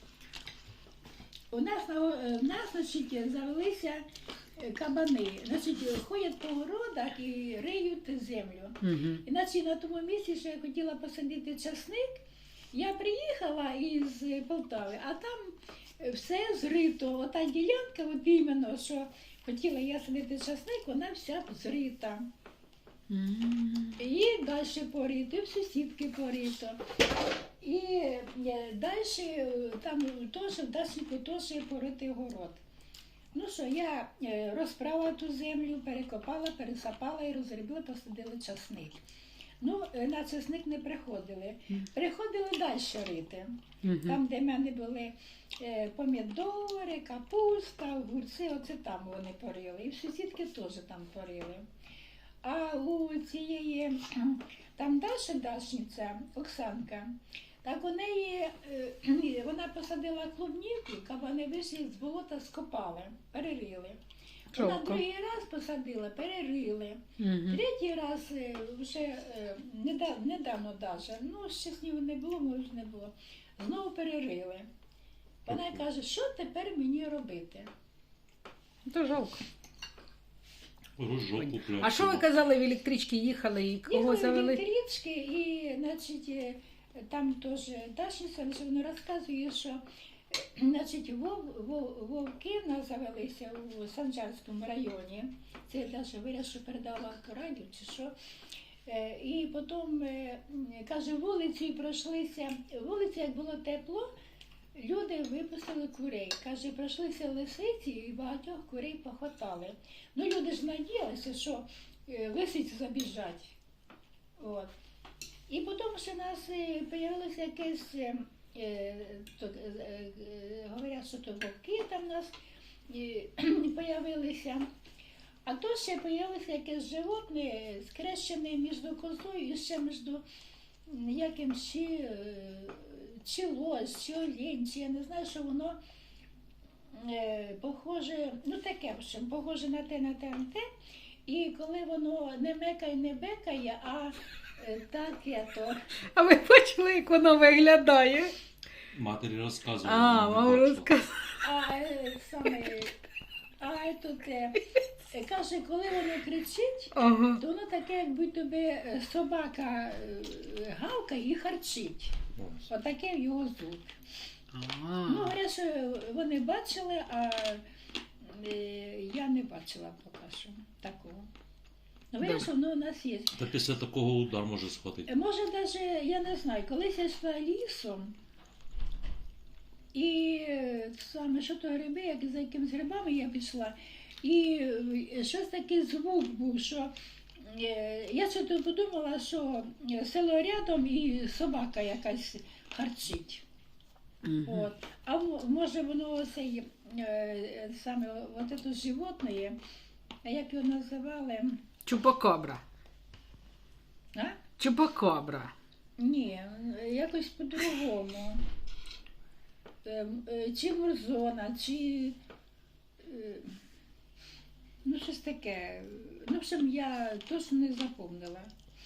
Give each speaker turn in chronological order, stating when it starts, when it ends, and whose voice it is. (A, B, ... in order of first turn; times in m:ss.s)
0:01.5-0:04.0 A
0:04.6-0:12.2 A
0:08.8-0:09.2 B
0:12.7-0:22.2 A
0:23.1-0:24.0 B
0:24.0-0:26.8 A
0:27.6-0:32.6 A
0:33.3-0:39.0 A
0:39.6-0:51.6 A
0:43.8-0:44.2 B
0:52.4-1:04.0 A
1:04.5-1:14.7 A
1:04.5-1:05.0 B
1:07.2-1:07.6 B
1:15.4-1:17.7 A
1:18.9-1:19.4 B
1:21.0-1:22.3 C
1:21.4-1:24.6 B
1:23.9-1:38.1 A
1:38.8-1:44.1 A
1:44.7-1:53.6 A
1:54.4-1:54.7 A
1:55.5-2:02.3 A
2:02.9-2:04.6 A
2:05.4-2:10.2 A
2:10.9-2:15.8 A
2:16.9-2:20.6 A
2:21.2-2:25.8 A
2:26.1-2:28.3 B
2:28.9-2:30.9 C
2:29.8-2:31.4 B
2:31.4-2:33.0 A
2:33.6-2:34.6 A
2:35.1-2:43.8 A
2:36.9-2:37.4 B
2:42.4-2:42.6 C
2:44.5-2:45.4 B
2:45.0-2:47.6 A
2:48.2-2:51.3 A
2:52.1-2:53.4 A
2:52.2-2:52.5 B
2:53.3-2:55.1 C
2:55.1-2:58.1 A
2:59.9-3:13.4 A
3:14.2-3:14.7 B
3:14.4-3:19.6 A
3:20.2-3:21.6 A
3:21.8-3:22.6 B
3:24.1-3:24.4 A
3:24.6-3:25.5 B
3:26.0-3:28.4 A
3:29.8-3:32.2 A
3:33.0-3:33.5 A
3:34.8-3:38.5 A